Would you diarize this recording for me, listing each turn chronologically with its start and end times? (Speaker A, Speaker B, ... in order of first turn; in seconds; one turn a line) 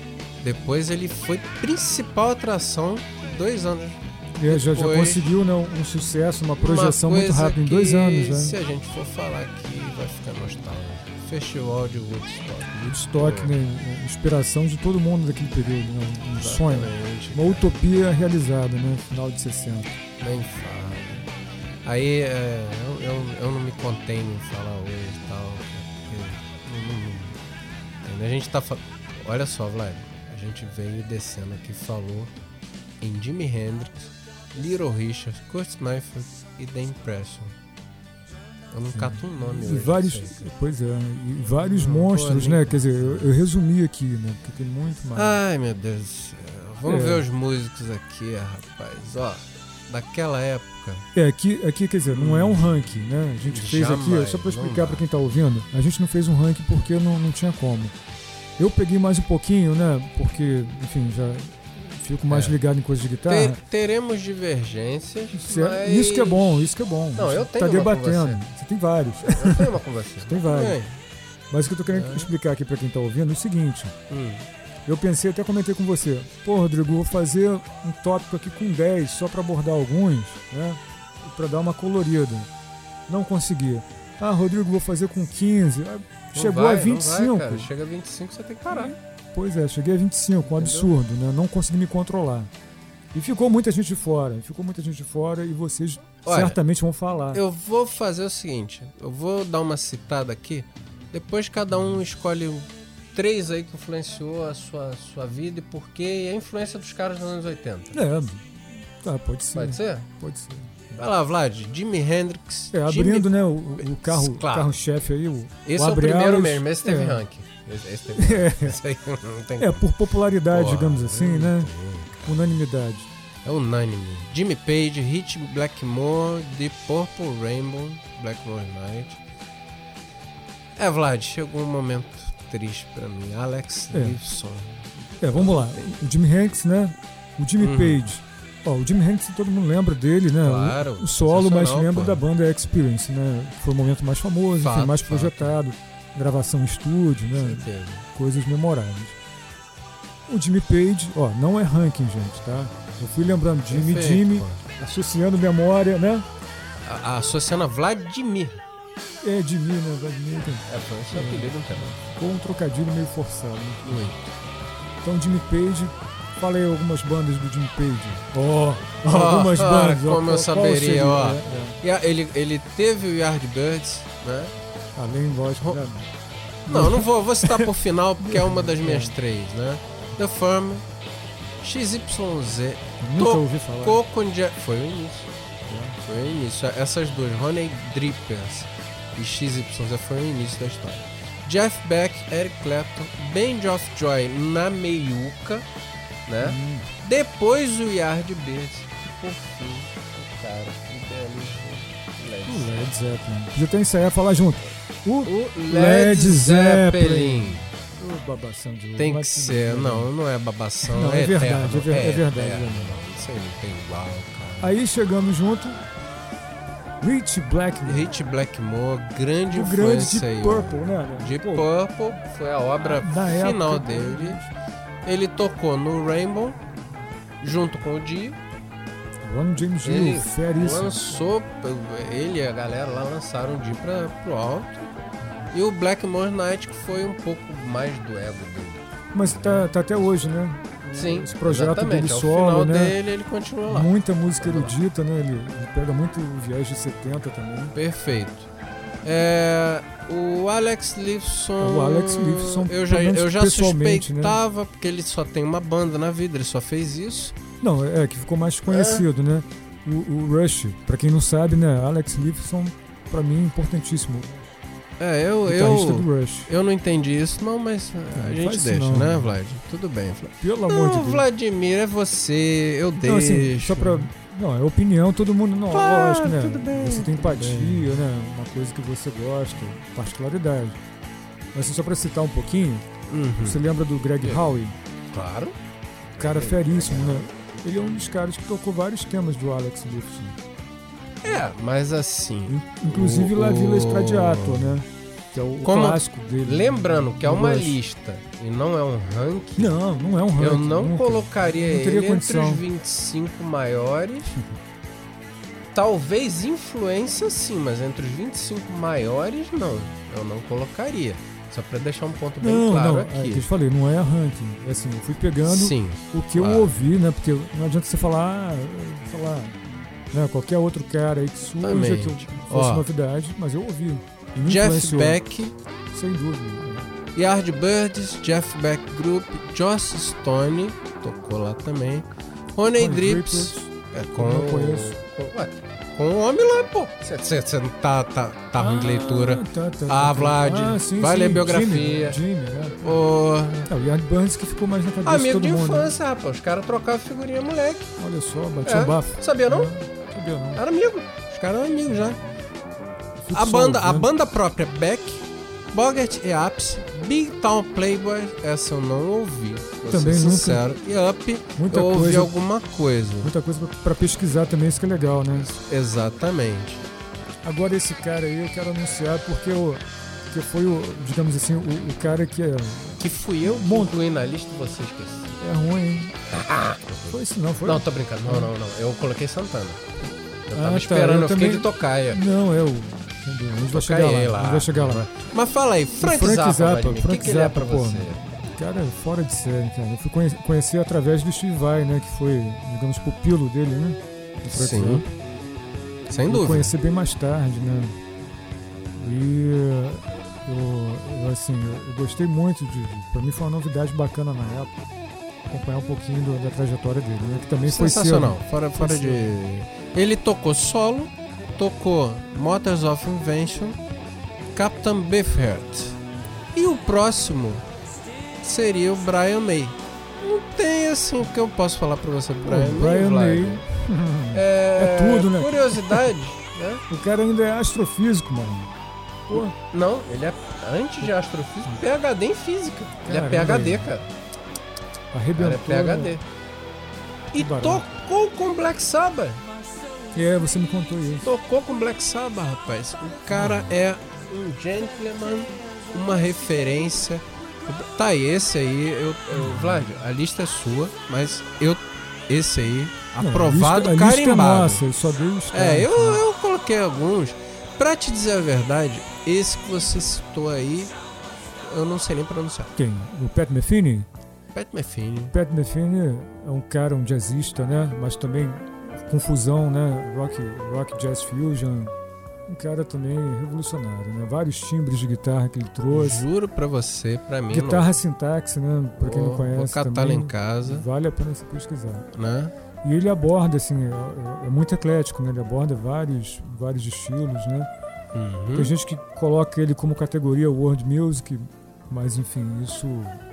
Speaker A: 0.4-5.3
Speaker B: 4.4-8.6
Speaker A: 6.6-13.6
Speaker B: 12.9-20.0
Speaker A: 16.4-17.7
Speaker A: 20.2-21.3
Speaker A: 21.8-27.4
Speaker A: 28.0-32.3
Speaker A: 33.0-37.5
Speaker A: 38.7-40.5
Speaker B: 38.9-45.4
Speaker A: 41.6-43.3
Speaker A: 45.1-51.1
Speaker B: 46.8-47.3
Speaker B: 51.1-57.9
Speaker A: 52.1-52.7
Speaker A: 53.5-55.1
Speaker B: 58.6-63.6
Speaker A: 62.3-62.6
Speaker A: 63.3-68.4
Speaker B: 65.3-70.8
Speaker A: 69.2-71.0
Speaker B: 71.5-74.0
Speaker A: 71.9-72.3
Speaker A: 74.1-74.5
Speaker B: 74.9-82.5
Speaker B: 83.1-87.7
Speaker A: 86.3-89.0
Speaker B: 88.8-92.5
Speaker A: 90.5-90.9
Speaker B: 93.1-97.4
Speaker A: 96.2-96.6
Speaker A: 97.3-108.0
Speaker B: 107.9-111.0
Speaker A: 109.5-110.1
Speaker A: 111.0-114.8
Speaker B: 112.7-117.2
Speaker A: 115.7-119.9
Speaker B: 118.2-118.8
Speaker B: 119.6-121.7
Speaker A: 120.5-122.6
Speaker B: 122.2-123.1
Speaker A: 123.4-129.2
Speaker A: 130.8-136.0
Speaker B: 133.9-134.2
Speaker B: 135.2-149.2
Speaker A: 137.6-138.1
Speaker A: 140.4-142.2
Speaker A: 144.6-145.6
Speaker A: 147.4-148.1
Speaker B: 150.3-156.3
Speaker A: 153.7-154.6
Speaker A: 156.8-158.6
Speaker B: 159.2-164.1
Speaker A: 160.7-161.9
Speaker A: 163.8-164.3
Speaker B: 165.0-171.8
Speaker A: 169.1-174.5
Speaker B: 175.0-176.1
Speaker B: 176.7-179.2
Speaker A: 176.7-180.8
Speaker A: 181.6-185.3
Speaker B: 183.0-184.0
Speaker B: 185.7-186.0
Speaker A: 186.0-195.7
Speaker A: 196.3-202.9
Speaker B: 196.4-196.9
Speaker B: 202.5-210.1
Speaker A: 205.2-207.7
Speaker A: 209.0-214.8
Speaker B: 210.8-213.0
Speaker B: 214.6-215.8
Speaker B: 217.0-218.1
Speaker A: 217.8-224.4
Speaker B: 219.5-221.7
Speaker B: 222.8-224.5
Speaker A: 225.0-226.6
Speaker A: 227.4-228.4
Speaker B: 229.2-231.3
Speaker A: 229.8-234.9
Speaker A: 235.5-239.7
Speaker B: 239.1-243.0
Speaker A: 240.8-244.8
Speaker B: 243.7-247.8
Speaker A: 247.7-248.5
Speaker A: 249.0-257.4
Speaker B: 251.6-254.4
Speaker B: 257.6-264.5
Speaker A: 258.7-259.1
Speaker A: 265.0-274.1
Speaker B: 265.5-266.5
Speaker B: 268.1-269.4
Speaker B: 270.4-271.3
Speaker B: 273.0-280.8
Speaker A: 275.7-277.9
Speaker B: 281.5-282.9
Speaker A: 283.1-283.6
Speaker B: 283.4-284.8
Speaker A: 284.2-284.5
Speaker A: 285.1-285.6
Speaker A: 286.2-287.3
Speaker B: 286.2-290.4
Speaker A: 291.2-294.8
Speaker B: 292.5-297.8
Speaker A: 295.6-299.8
Speaker B: 299.6-302.6
Speaker A: 300.4-304.4
Speaker A: 305.7-313.5
Speaker B: 312.4-325.2
Speaker A: 315.4-316.7
Speaker A: 321.6-322.9
Speaker A: 324.4-325.6
Speaker B: 325.9-326.9
Speaker A: 327.1-342.2
Speaker B: 332.8-335.0
Speaker B: 338.6-343.0
Speaker A: 342.8-343.7
Speaker B: 343.7-345.9
Speaker A: 345.0-347.9
Speaker B: 348.0-350.6
Speaker A: 348.6-349.7
Speaker A: 350.6-352.2
Speaker B: 353.2-354.1
Speaker A: 353.3-363.3
Speaker B: 359.9-360.8
Speaker B: 361.6-362.3
Speaker B: 363.2-365.5
Speaker A: 365.6-366.9
Speaker B: 367.4-374.0
Speaker A: 373.0-375.3
Speaker B: 375.4-376.2
Speaker A: 376.3-379.9
Speaker B: 377.1-378.5
Speaker A: 380.5-382.2
Speaker B: 380.5-385.1
Speaker A: 383.7-388.2
Speaker B: 386.0-395.1
Speaker A: 394.5-395.1
Speaker A: 396.1-396.7
Speaker B: 396.3-398.0
Speaker B: 398.9-404.7
Speaker B: 405.5-409.4
Speaker A: 407.6-413.8
Speaker A: 414.6-416.0
Speaker A: 416.5-417.7
Speaker A: 418.4-423.6
Speaker B: 422.4-426.1
Speaker A: 424.3-426.8
Speaker B: 426.9-428.7
Speaker B: 429.3-429.6
Speaker A: 429.3-434.1
Speaker B: 433.0-433.9
Speaker B: 435.1-436.2
Speaker A: 435.4-436.2
Speaker A: 437.3-439.4
Speaker B: 437.4-437.9
Speaker B: 440.1-441.3
Speaker A: 441.2-454.8
Speaker B: 449.4-449.9
Speaker B: 453.2-456.2
Speaker A: 455.5-460.9
Speaker A: 461.6-462.7
Speaker B: 462.8-464.1
Speaker A: 464.5-465.3
Speaker B: 465.3-471.9
Speaker B: 472.5-476.2
Speaker A: 475.9-477.9
Speaker B: 477.5-482.1
Speaker A: 479.0-480.9
Speaker A: 482.1-482.5
Speaker B: 482.8-487.7
Speaker A: 488.1-488.7
Speaker B: 488.5-493.2